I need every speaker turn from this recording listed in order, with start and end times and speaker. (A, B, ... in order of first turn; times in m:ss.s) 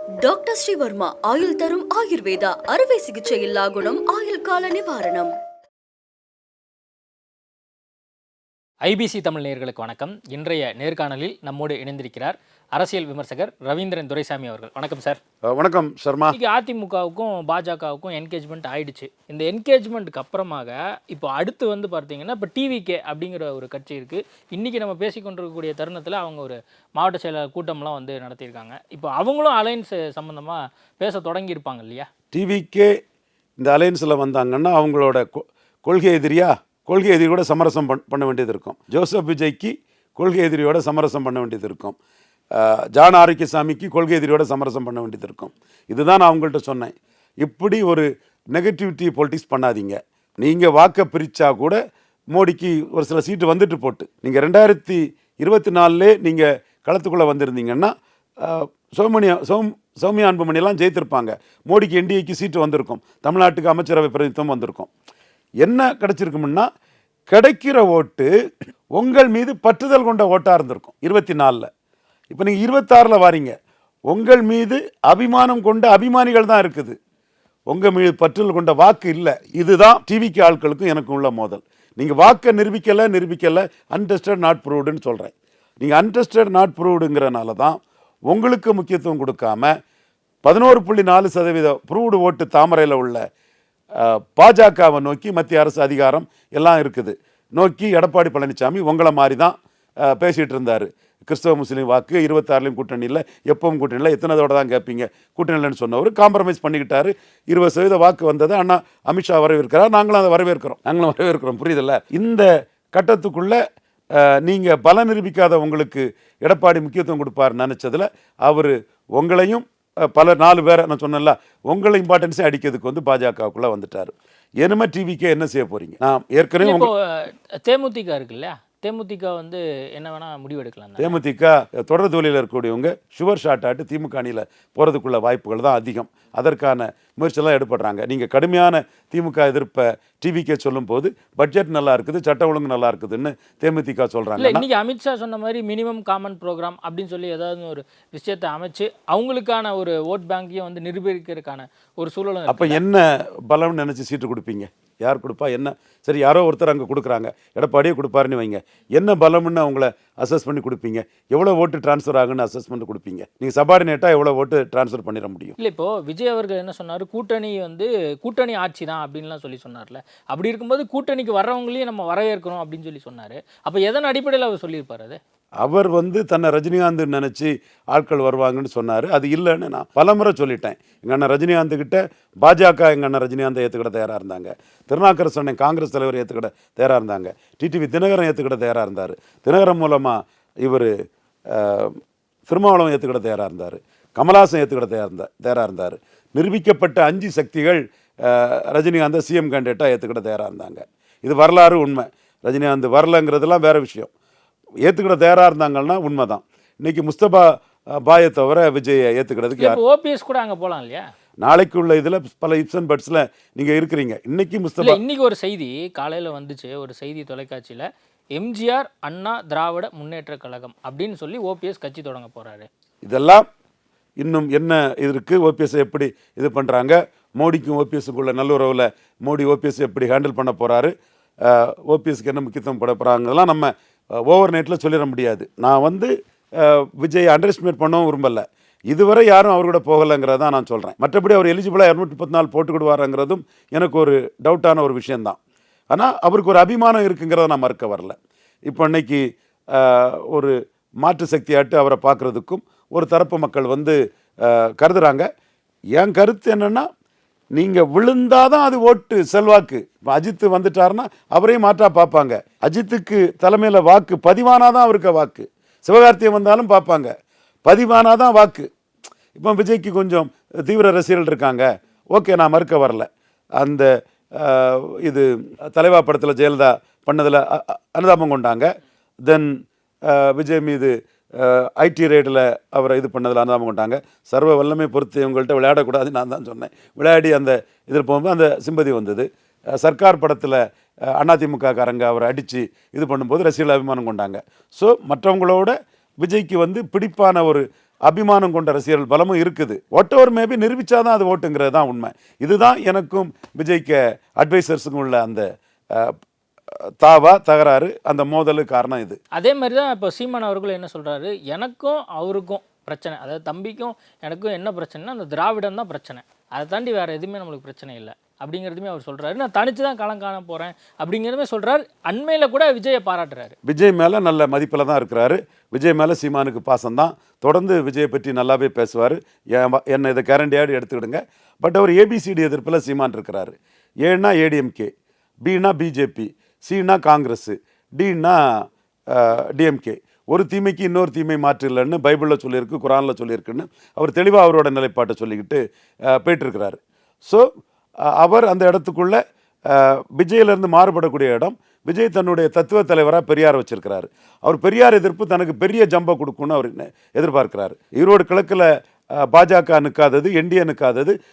0:00.2-0:05.3 A
0:08.9-0:15.2 B
0:15.5-0:16.4 C
0:16.3-0:32.1 B
0:32.3-0:32.9 C
0:33.6-0:42.0 C
0:42.6-0:51.8 C
0:52.3-1:04.9 C
1:05.6-1:06.7 C
1:07.3-1:08.3 C
1:09.0-1:11.7 C
1:12.3-1:13.6 C
1:14.1-1:17.0 C
1:17.7-1:29.8 C
1:30.4-1:33.2 C
1:34.0-1:53.6 C
1:54.2-2:06.9 C
2:06.6-2:11.2 B
2:11.0-2:24.6 C
2:24.4-2:32.8 B
2:32.5-2:45.6 C
2:45.6-2:55.2 B
2:55.6-3:10.9 C
3:11.5-3:12.0 C
3:12.5-3:24.1 C
3:24.8-3:27.5 C
3:28.0-3:29.8 C
3:29.6-3:31.0 B
3:31.4-3:35.0 C
3:34.8-3:42.7 B
3:43.0-3:43.4 C
3:44.2-3:50.9 C
3:51.4-3:53.7 C
3:54.3-4:05.4 C
4:05.9-4:08.2 C
4:08.7-4:09.2 C
4:09.7-4:15.3 C
4:16.0-4:16.9 C
4:17.6-4:27.1 C
4:27.7-4:28.7 C
4:29.4-4:33.1 C
4:33.6-4:38.7 C
4:39.3-4:39.5 C
4:40.1-4:50.6 C
4:51.2-5:06.2 C
5:07.0-5:09.2 C
5:09.3-5:23.6 B
5:23.6-5:34.9 C
5:35.4-5:38.4 C
5:39.1-5:47.5 C
5:48.0-6:01.2 C